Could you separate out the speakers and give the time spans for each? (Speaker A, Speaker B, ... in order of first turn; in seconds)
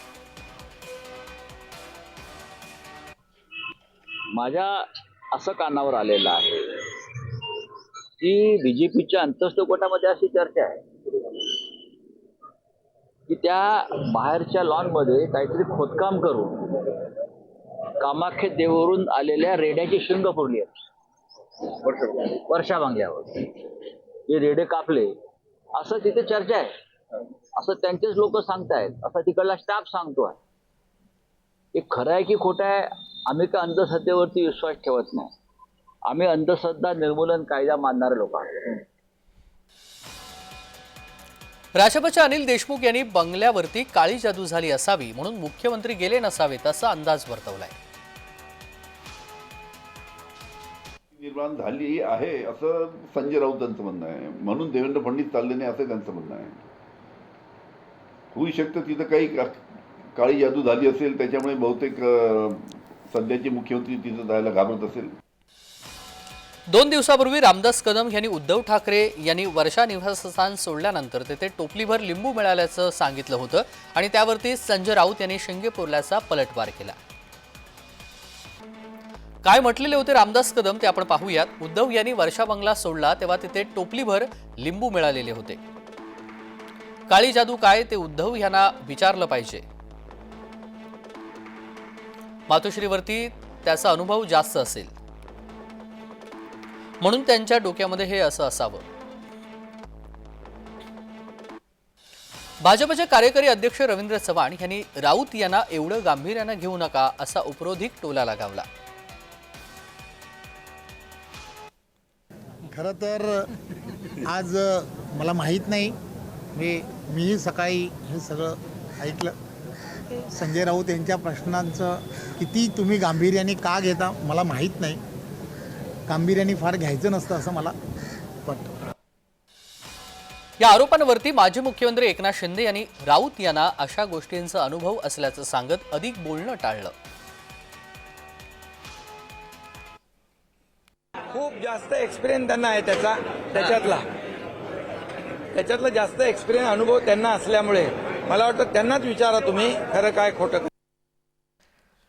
Speaker A: 4.3-4.7, 5.3-7.6, 8.2-11.6, 13.3-17.1, 18.0-20.7, 21.6-25.2, 25.8-26.7, 27.6-30.4, 31.7-35.3, 36.1-38.8
Speaker B: 41.7-47.8, 66.7-77.0, 79.4-85.6, 87.1-89.6, 92.5-94.9, 97.0-98.8, 102.6-108.7, 130.6-136.9
Speaker C: 51.1-56.6, 58.3-59.6, 60.1-65.1
Speaker D: 112.7-113.3, 114.2-115.9, 116.5-119.3, 120.3-125.0, 126.1-127.7, 128.4-128.7
Speaker E: 141.3-144.0, 145.5-150.6